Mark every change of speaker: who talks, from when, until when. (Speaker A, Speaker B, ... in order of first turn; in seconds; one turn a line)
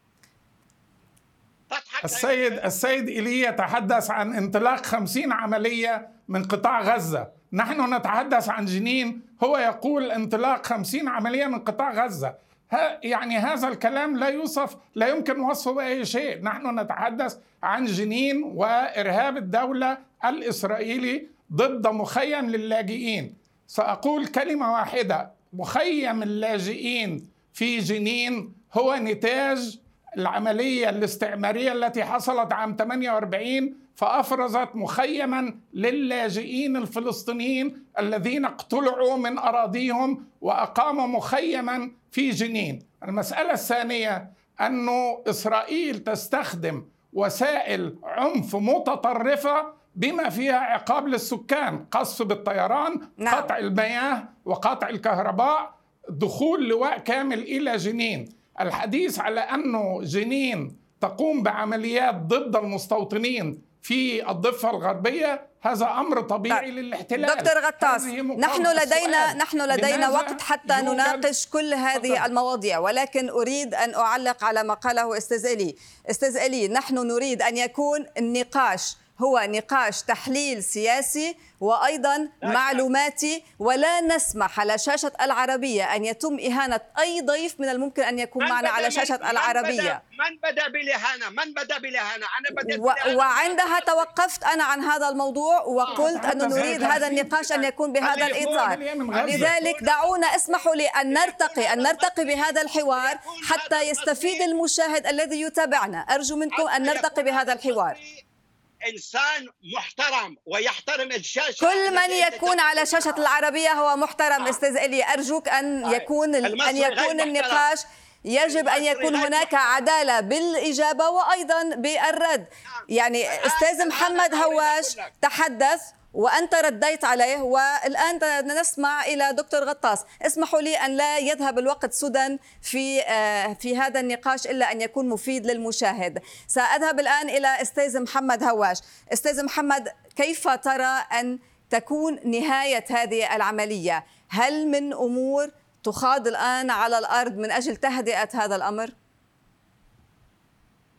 Speaker A: 1.7-2.6
Speaker B: 2.0-71.3
Speaker C: 53.2-53.5
Speaker C: 66.5-90.0
Speaker B: 71.9-72.3
Speaker A: 82.4-82.8
Speaker A: 88.4-94.1
Speaker C: 92.5-108.0
Speaker A: 95.8-104.4
Speaker B: 95.9-97.3
Speaker B: 98.1-99.5
Speaker A: 106.5-108.2
Speaker A: 108.8-113.2
Speaker C: 111.6-148.9
Speaker A: 115.8-117.7
Speaker A: 118.4-119.5
Speaker A: 122.7-125.1